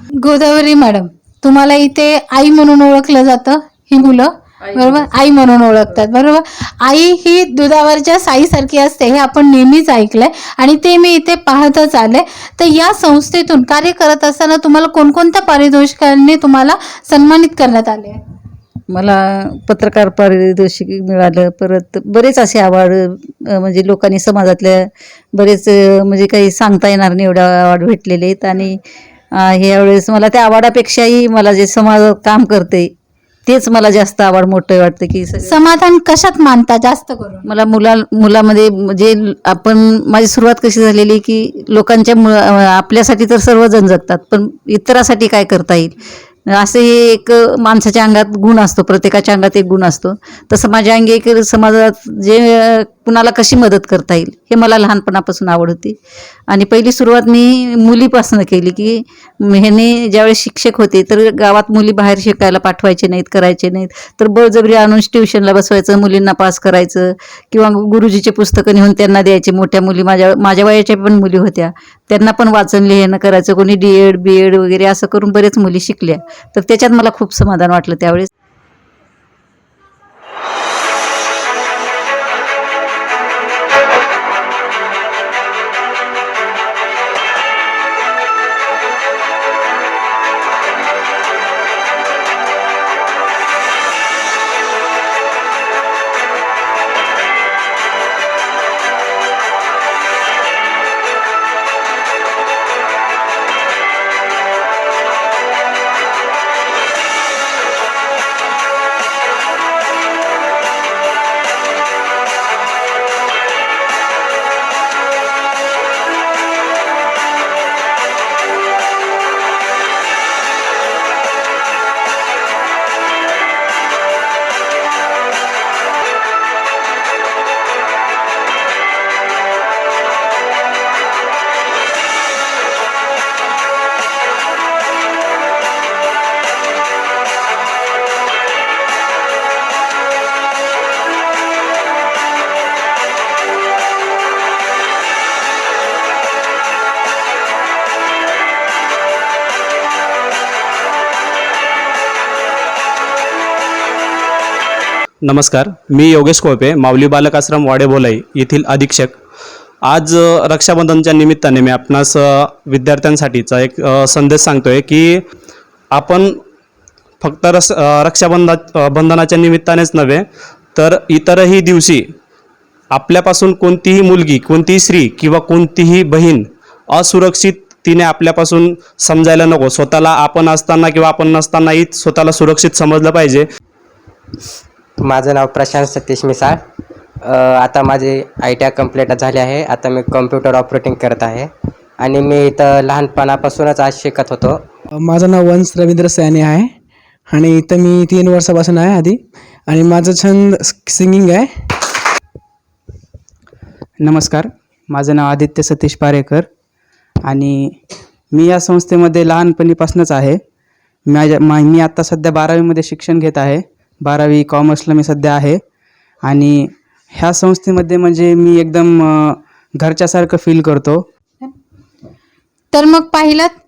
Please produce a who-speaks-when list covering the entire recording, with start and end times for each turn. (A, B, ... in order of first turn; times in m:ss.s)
0:00.2-0:18.2 A
0:18.9-0:28.8 B
0:29.4-0:32.9 B
0:33.4-0:35.5 B
0:35.4-0:37.4 A
0:37.4-0:45.9 B
0:46.5-0:56.0 B
0:56.5-1:18.3 B
2:35.2-2:39.1 C
2:39.9-2:45.2 C
2:45.9-2:46.3 C
2:47.2-2:50.2 C
2:50.8-2:52.0 C
2:52.9-3:03.4 C
3:05.0-3:06.6 D
3:07.2-3:14.6 D
3:15.0-3:16.7 E
3:17.3-3:21.5 E
3:24.0-3:26.5 F
3:27.2-3:27.7 F
3:28.3-3:30.4 F
3:31.1-3:35.6 F
3:36.2-3:41.0 F
3:42.7-3:43.5 A